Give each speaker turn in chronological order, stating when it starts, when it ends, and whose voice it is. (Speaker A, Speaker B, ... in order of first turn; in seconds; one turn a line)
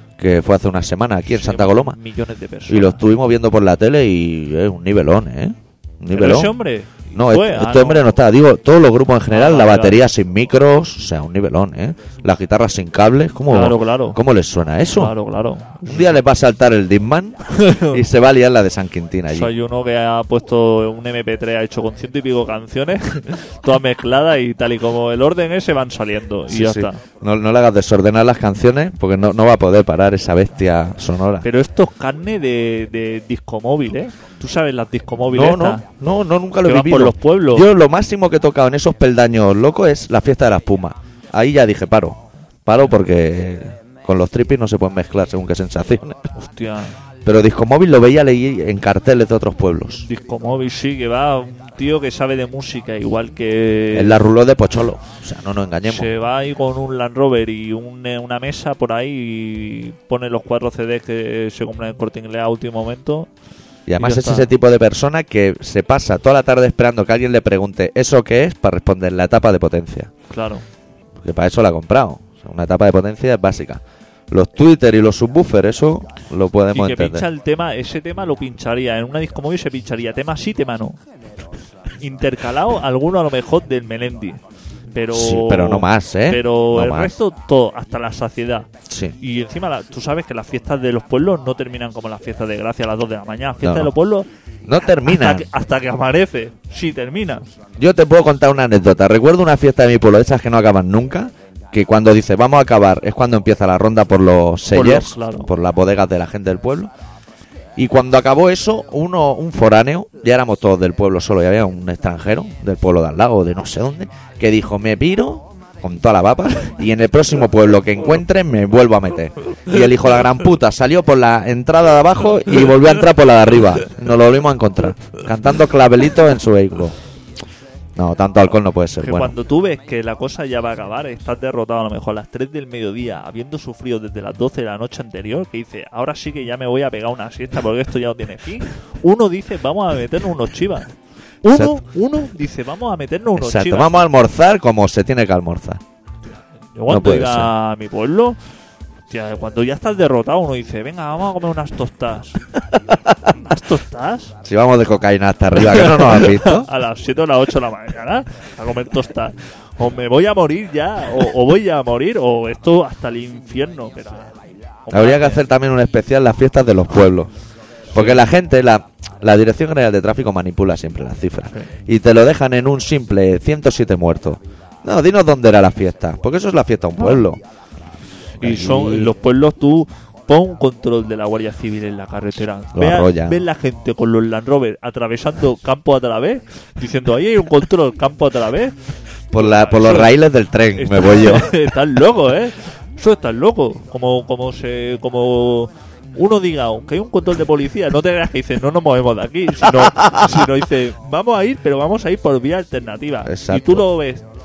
Speaker A: 0.2-2.0
Speaker B: 1.3-3.1
Speaker A: 2.7-6.5
Speaker B: 6.1-8.1
Speaker A: 7.1-15.2
Speaker B: 9.3-10.0
Speaker B: 13.5-14.2
Speaker B: 14.9-16.2
Speaker A: 15.8-19.5
Speaker B: 17.5-18.0
Speaker B: 19.3-27.0
Speaker A: 26.5-31.5
Speaker B: 31.4-35.8
Speaker A: 35.3-46.2
Speaker B: 36.6-37.7
Speaker B: 46.3-47.0
Speaker A: 47.2-50.1
Speaker B: 50.0-54.2
Speaker A: 53.9-56.1
Speaker B: 55.9-63.3
Speaker A: 63.9-70.1
Speaker B: 64.0-64.5
Speaker B: 70.3-70.6
Speaker A: 71.2-77.2
Speaker B: 76.7-81.0
Speaker B: 82.0-84.4
Speaker B: 84.9-88.7
Speaker A: 85.1-87.1
Speaker A: 88.9-89.2
Speaker B: 89.2-94.3
Speaker A: 93.6-93.9
Speaker A: 94.7-95.5
Speaker B: 94.9-97.5
Speaker A: 97.8-106.9
Speaker B: 104.7-105.5
Speaker A: 107.8-127.0
Speaker A: 128.0-129.3
Speaker B: 129.0-143.9
Speaker A: 141.5-141.8
Speaker A: 143.3-145.8
Speaker B: 146.8-148.4
Speaker A: 146.9-147.5
Speaker B: 149.1-152.4
Speaker A: 152.7-153.2
Speaker B: 153.3-154.4
Speaker A: 154.4-156.7
Speaker B: 155.5-165.4
Speaker A: 164.9-167.3
Speaker A: 167.9-177.4
Speaker B: 167.9-168.3
Speaker B: 177.0-177.2
Speaker B: 178.4-188.7
Speaker A: 178.4-179.1
Speaker A: 182.7-183.4
Speaker A: 189.3-191.5
Speaker B: 189.3-190.2
Speaker B: 190.7-204.2
Speaker A: 200.0-200.2
Speaker A: 203.2-203.8